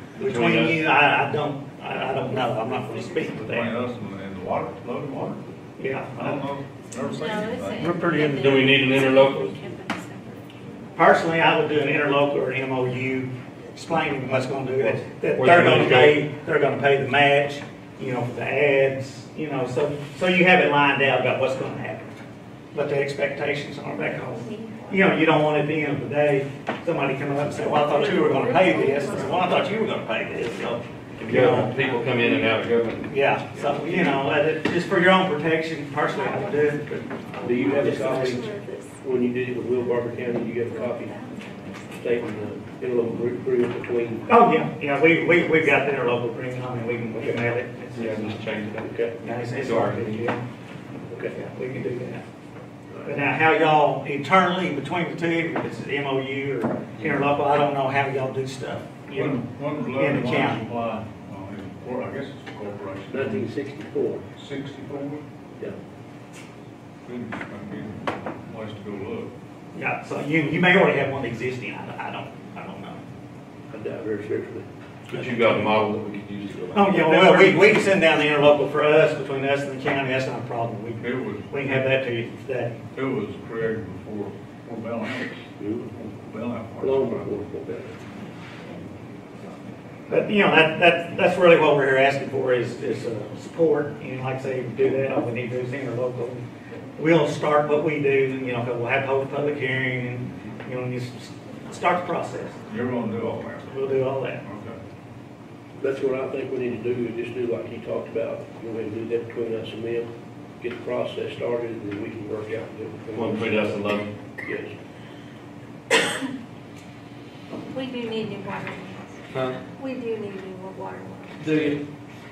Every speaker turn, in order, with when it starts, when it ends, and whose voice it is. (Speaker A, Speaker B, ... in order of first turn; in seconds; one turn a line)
Speaker A: 0.2-0.9
Speaker B: 0.2-3.7
Speaker C: 2.3-3.3
Speaker D: 3.4-5.4
Speaker B: 5.8-6.4
Speaker D: 6.1-7.9
Speaker C: 6.9-11.1
Speaker B: 7.8-8.6
Speaker A: 8.3-9.6
Speaker B: 10.9-22.1
Speaker A: 14.8-16.2
Speaker B: 22.7-31.8
Speaker C: 24.1-25.2
Speaker C: 27.6-29.7
Speaker A: 31.2-33.1
Speaker B: 33.1-37.0
Speaker C: 36.1-39.0
Speaker E: 37.4-41.2
Speaker B: 37.6-38.4
Speaker C: 39.9-42.5
Speaker E: 42.0-44.3
Speaker B: 44.3-48.4
Speaker A: 48.0-50.3
Speaker E: 48.8-49.1
Speaker B: 49.2-50.4
Speaker E: 51.1-51.4
Speaker B: 51.3-52.2
Speaker E: 52.9-53.2
Speaker B: 53.0-60.7
Speaker D: 59.1-63.5
Speaker E: 63.1-64.2
Speaker D: 64.4-65.2
Speaker D: 67.0-69.3
Speaker B: 69.7-73.0
Speaker E: 73.7-74.7
Speaker A: 75.1-77.7
Speaker B: 75.1-75.7
Speaker B: 76.7-82.8
Speaker D: 81.0-81.5
Speaker D: 82.9-85.4
Speaker E: 85.6-86.0
Speaker D: 86.0-87.3
Speaker E: 86.8-88.0
Speaker B: 90.1-96.5
Speaker B: 97.0-102.6
Speaker D: 102.7-103.8
Speaker B: 103.7-104.4
Speaker D: 104.4-104.8
Speaker E: 105.8-113.9
Speaker A: 113.1-114.1
Speaker E: 114.4-114.8
Speaker C: 117.7-119.2
Speaker A: 119.3-119.6
Speaker C: 119.8-121.8
Speaker A: 121.4-121.8